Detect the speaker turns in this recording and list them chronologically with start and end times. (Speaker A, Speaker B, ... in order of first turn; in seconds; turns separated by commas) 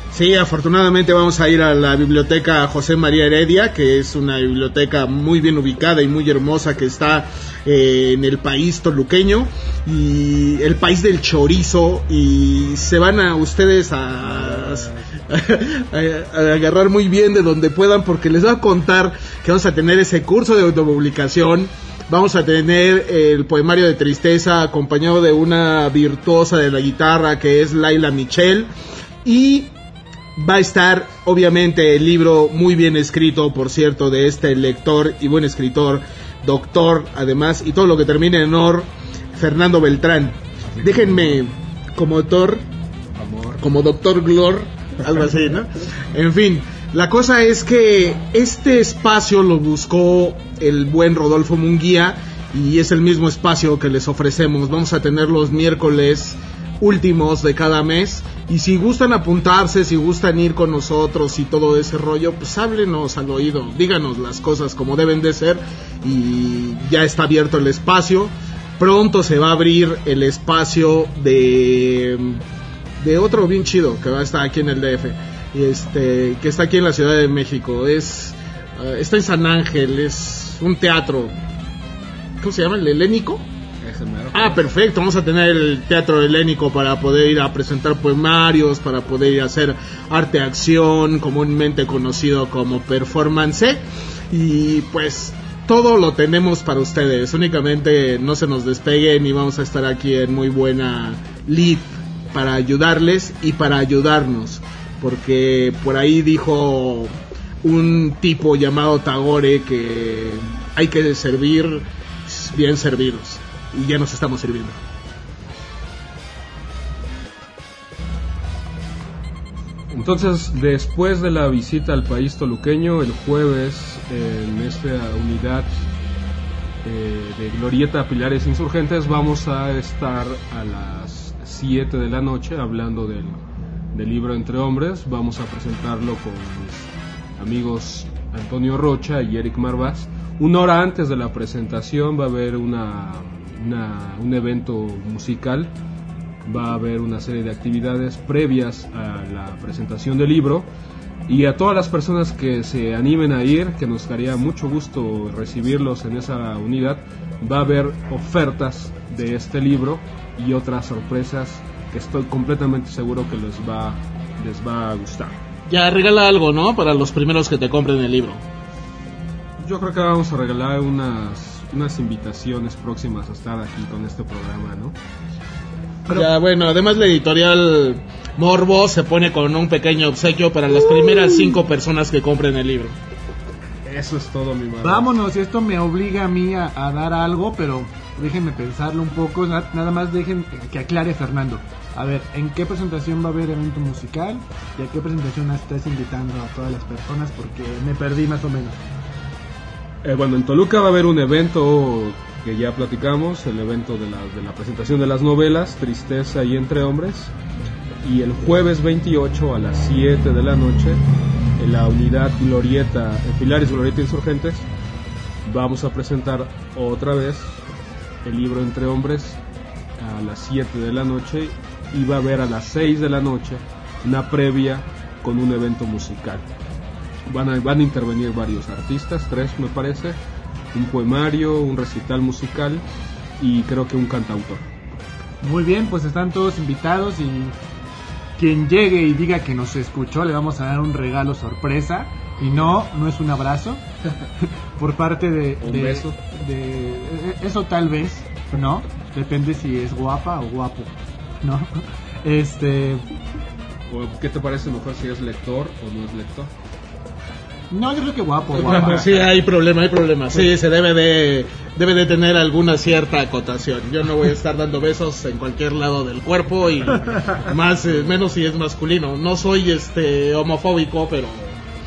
Speaker A: 0.1-28.7, Speaker A: 29.2-29.7, Speaker A: 30.4-42.6, Speaker B: 43.2-43.6, Speaker A: 43.6-72.4, Speaker A: 73.0-81.4, Speaker A: 82.4-83.5, Speaker B: 83.8-84.6, Speaker A: 84.3-114.8, Speaker B: 119.9-125.8, Speaker B: 126.8-145.7, Speaker B: 146.4-150.7, Speaker B: 151.3-165.4, Speaker A: 165.7-168.4, Speaker B: 169.6-175.0, Speaker A: 176.1-183.0, Speaker B: 183.8-185.1, Speaker C: 184.8-198.8, Speaker B: 200.0-207.3, Speaker B: 208.0-211.0, Speaker B: 211.6-214.7, Speaker B: 215.4-217.6, Speaker B: 218.2-219.4, Speaker B: 220.0-226.5, Speaker B: 227.3-230.2, Speaker B: 230.7-232.8, Speaker B: 233.4-234.7, Speaker C: 235.4-237.6, Speaker C: 238.4-243.8, Speaker C: 244.8-253.1, Speaker B: 245.6-246.2, Speaker B: 253.9-256.5, Speaker C: 257.7-259.1, Speaker A: 258.6-271.6